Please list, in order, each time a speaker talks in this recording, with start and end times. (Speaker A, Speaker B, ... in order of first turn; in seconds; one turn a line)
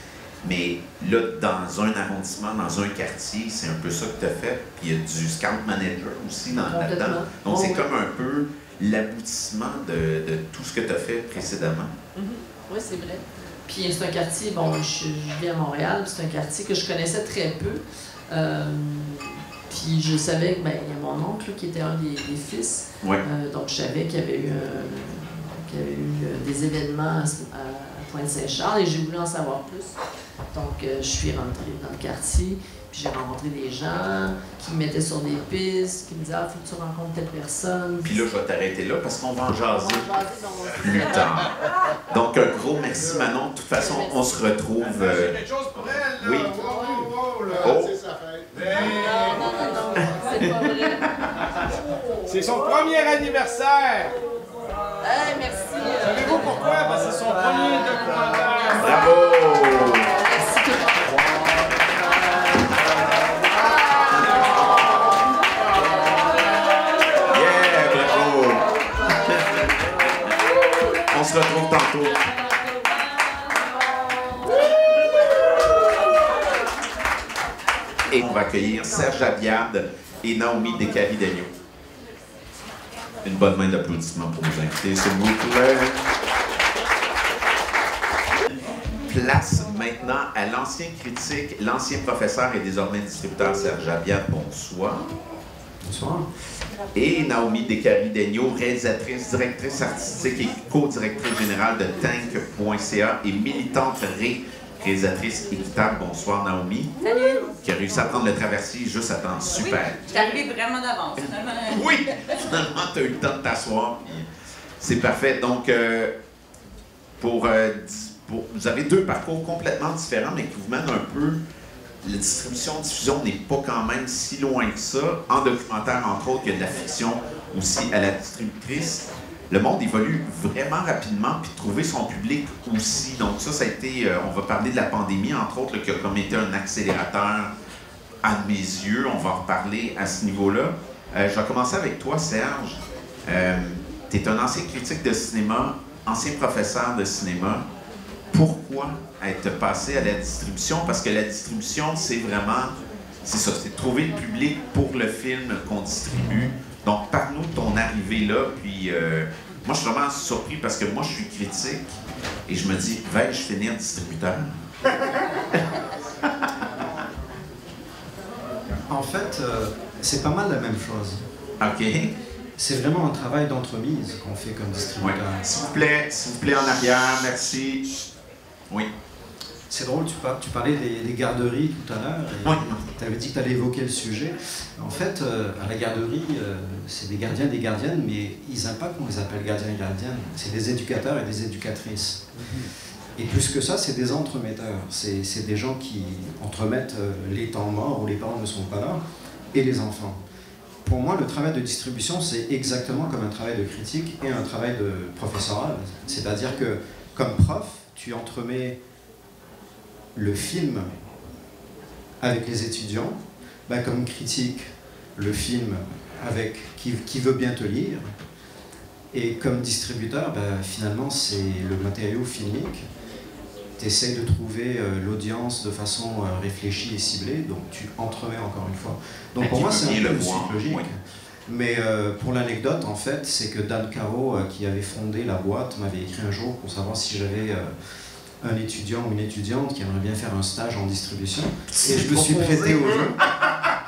Speaker A: 0.4-11.9
Speaker B: 6.7-7.9
Speaker B: 12.1-29.9
Speaker B: 30.5-38.2
Speaker A: 38.0-41.5
Speaker A: 42.1-45.3
Speaker C: 44.8-47.7
Speaker A: 46.2-46.5
Speaker A: 47.6-48.0
Speaker C: 48.5-49.4
Speaker B: 48.9-51.0
Speaker A: 50.4-51.3
Speaker C: 52.3-54.1
Speaker B: 55.0-56.4
Speaker C: 56.0-58.9
Speaker A: 58.7-60.1
Speaker B: 60.2-61.0
Speaker A: 67.3-69.6
Speaker A: 71.0-72.2
Speaker A: 78.1-81.5
Speaker A: 83.2-86.0
Speaker A: 89.0-95.0
Speaker D: 95.8-96.3
Speaker A: 96.9-107.0
Speaker E: 107.0-107.5
Speaker A: 107.6-110.1
Speaker E: 109.6-111.9
Speaker A: 111.7-114.2
Speaker A: 114.8-116.1
Speaker A: 117.2-121.4
Speaker A: 122.0-137.5
Speaker A: 138.2-147.6
Speaker A: 148.3-164.5
Speaker D: 168.9-171.2
Speaker A: 171.6-172.1
Speaker D: 172.6-175.4
Speaker A: 175.0-177.9
Speaker D: 179.7-192.2
Speaker A: 182.4-182.8
Speaker D: 193.2-199.0
Speaker D: 199.5-200.2
Speaker D: 200.8-208.8
Speaker D: 210.1-210.9
Speaker D: 212.2-218.1
Speaker D: 219.1-222.8
Speaker D: 223.8-237.7
Speaker A: 229.4-230.8
Speaker D: 238.4-243.2
Speaker A: 241.7-243.1